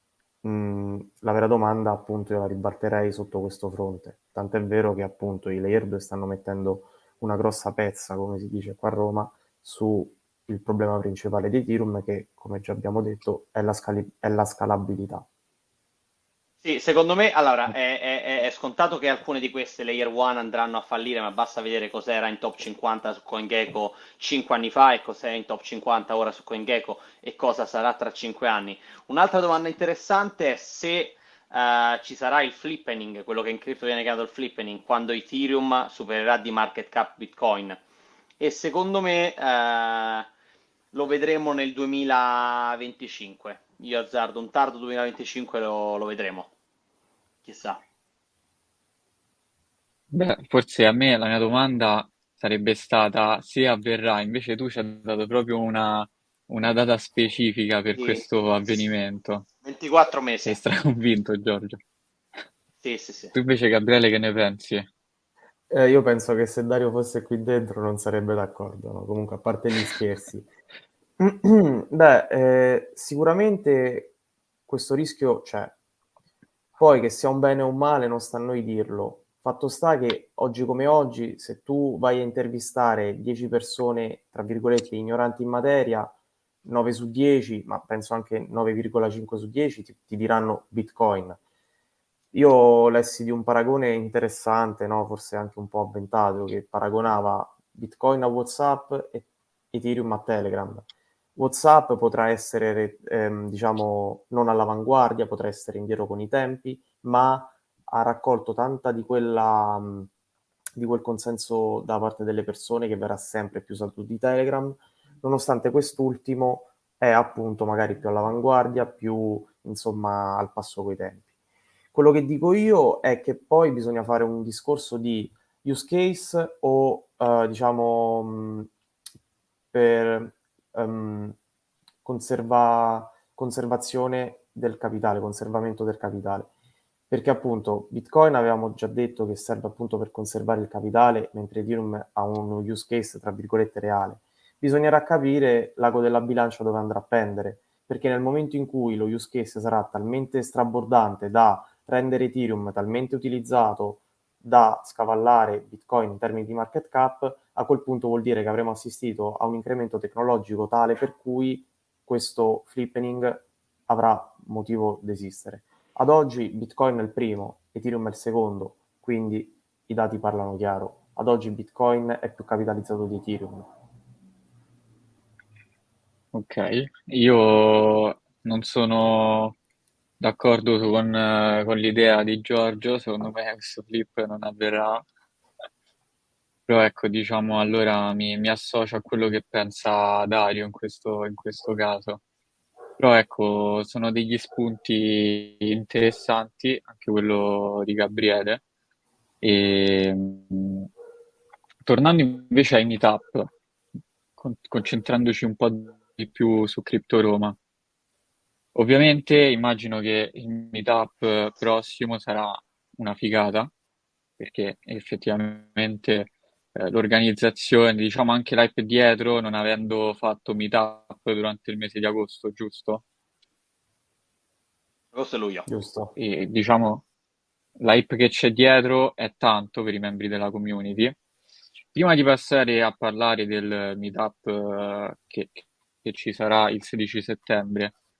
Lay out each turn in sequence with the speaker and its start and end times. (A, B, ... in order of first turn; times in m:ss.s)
0:00.4-0:15.2 A
0:16.6-0:37.8 B
0:38.4-0:40.3 B
0:40.9-0:46.5 B
0:47.4-0:47.8 B
0:50.1-0:59.4 C
0:57.9-0:58.2 B
0:59.6-1:00.6 B
1:00.4-1:01.8 C
1:02.8-1:03.3 B
1:03.3-1:04.9 C
1:05.7-1:10.5 A
1:11.2-1:14.1 A
1:14.7-1:15.7 A
1:16.8-1:31.4 A
1:32.3-1:50.1 A
1:50.8-2:01.2 A
2:01.9-2:08.7 A
2:09.7-2:11.4 A
2:12.0-2:16.5 A
2:17.1-2:53.7 A
2:56.3-2:59.6 C
3:00.2-3:05.0 C
3:06.7-3:12.2 C
3:13.0-3:18.6 C
3:19.4-3:20.9 C
3:21.8-3:23.5 C
3:24.4-3:27.6 C
3:28.7-3:33.7 C
3:34.4-3:43.0 C
3:45.1-3:45.7 B
3:45.7-3:46.1 A
3:46.2-3:47.0 C
3:47.8-3:51.2 C
3:51.9-3:57.9 C